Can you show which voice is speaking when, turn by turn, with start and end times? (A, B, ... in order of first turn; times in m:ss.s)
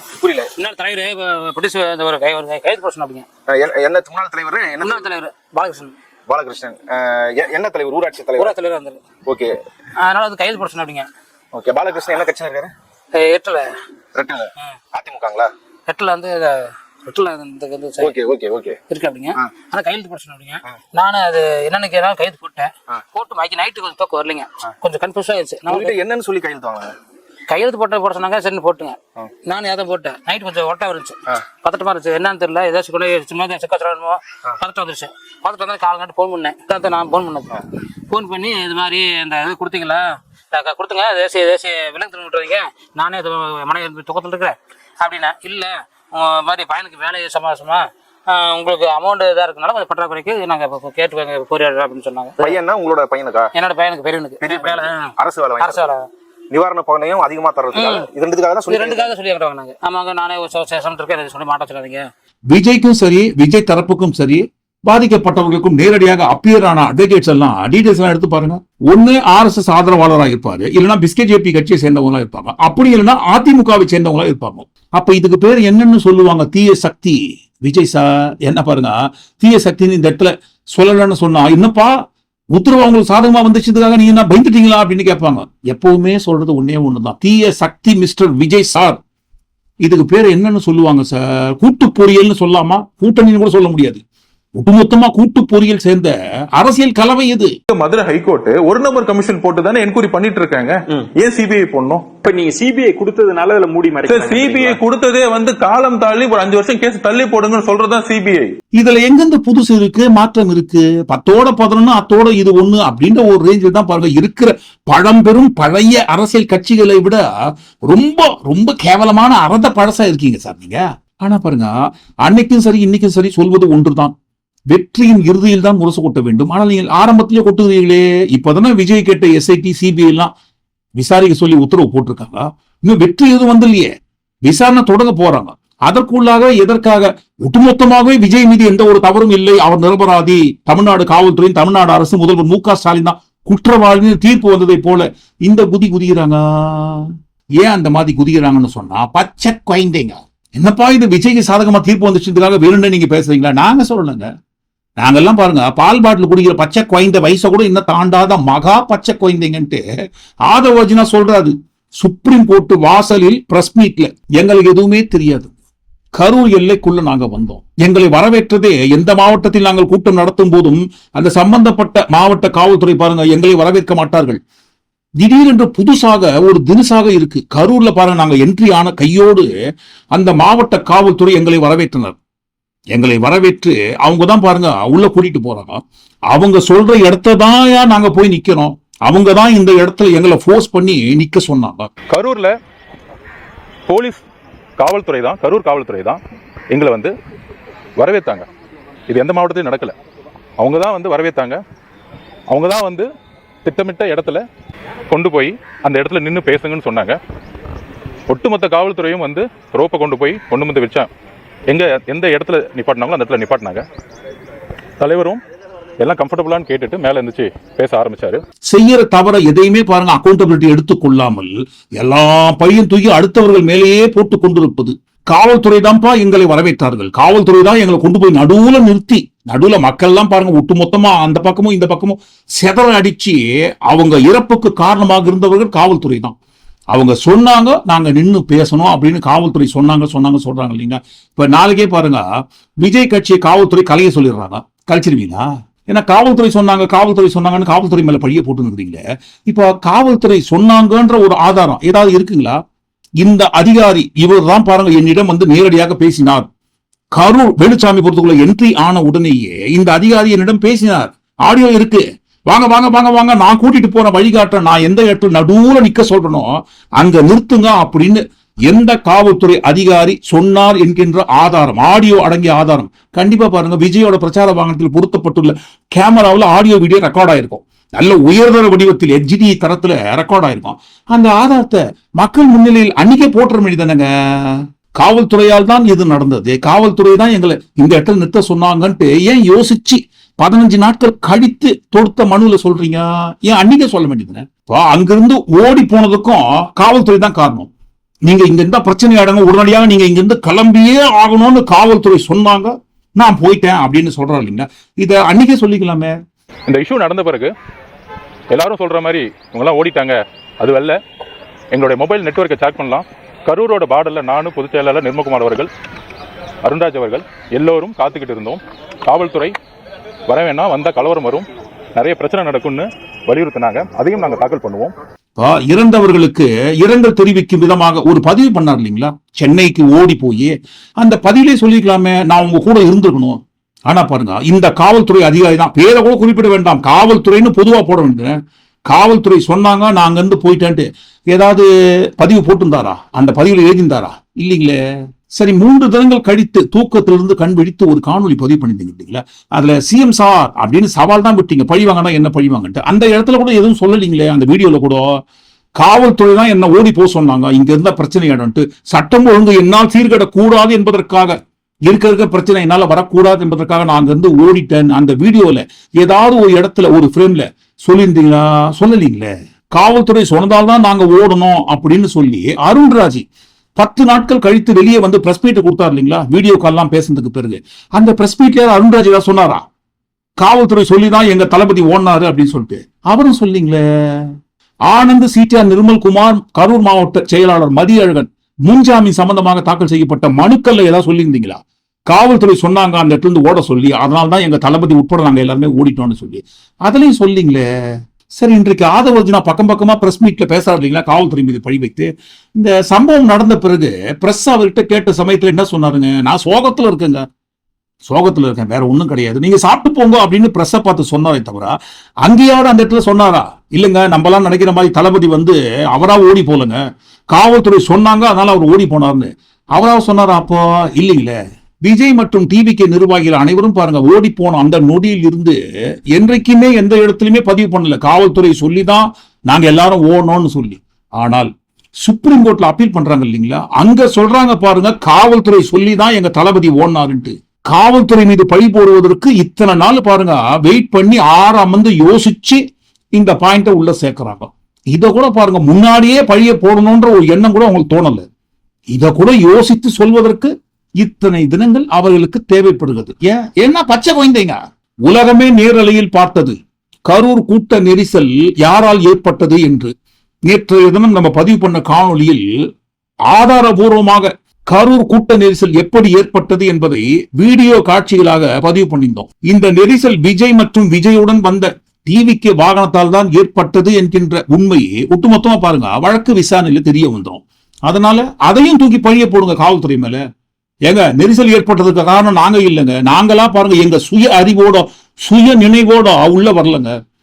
0:00.2-0:00.5 A
0:00.6-0:03.3 B
0:03.5-0:05.1 A
0:04.8-0:06.0 B
0:06.3-0:08.5 A
0:08.4-0:09.0 B
0:09.2-0:09.6 A
0:10.0-0:11.1 B
0:11.5-0:12.7 A
0:13.1-0:13.7 B
0:14.1-0:15.5 A
0:15.9-0:18.1 B
0:18.0-0:18.8 A
0:18.9-0:26.0 B
0:25.7-0:26.9 A
0:27.5-0:52.6 B
0:52.4-0:53.5 A
0:53.6-0:56.1 B
0:54.4-0:55.9 A
0:56.5-0:59.1 A
0:57.8-0:58.1 B
0:58.7-1:02.1 B
1:02.5-1:22.0 C
1:22.5-1:29.0 C
1:29.8-1:34.0 C
1:34.6-1:37.5 C
1:37.7-1:42.1 D
1:42.2-1:44.8 E
1:44.1-1:48.5 D
1:48.7-1:57.3 C
1:57.9-2:01.7 C
2:02.2-2:04.1 C
2:04.7-2:10.3 C
2:11.0-2:13.9 C
2:14.4-2:34.3 C
2:35.0-2:39.8 C
2:40.5-2:45.5 C
2:46.2-2:54.4 C
2:55.2-2:59.5 C
3:00.1-3:02.2 C
3:02.9-3:11.9 C
3:12.1-3:12.5 D
3:13.9-3:14.2 D
3:14.8-3:16.2 D
3:16.7-3:17.1 D
3:18.0-3:18.4 D
3:19.1-3:19.9 D
3:20.6-3:21.6 D
3:22.5-3:23.1 D
3:23.6-3:24.4 D
3:25.1-3:27.2 D
3:28.3-3:31.1 D
3:31.7-3:33.8 D
3:35.0-3:35.4 D
3:36.0-3:38.4 D
3:38.7-3:56.4 C
3:56.9-4:02.2 C
4:02.8-4:12.6 C
4:13.2-4:16.5 C
4:17.2-4:57.7 C
4:58.3-5:06.1 C
5:06.7-5:07.5 D
5:08.5-5:11.0 D
5:11.7-5:15.7 D
5:16.6-5:19.5 D
5:20.3-5:24.9 D
5:25.4-5:38.4 C
5:38.9-5:41.7 C
5:42.2-5:44.8 C
5:45.3-5:55.1 C
5:55.8-6:13.2 C
6:13.8-6:19.6 C
6:20.4-6:24.3 C
6:24.9-6:37.6 C
6:38.4-6:47.2 C
6:48.0-6:56.8 C
6:57.3-7:05.6 C
7:06.2-7:11.5 C
7:12.0-7:22.6 C
7:23.1-7:28.3 C
7:28.9-7:36.6 C
7:37.1-7:39.9 C
7:40.5-7:42.4 C
7:43.3-8:00.2 C
8:00.9-8:06.9 C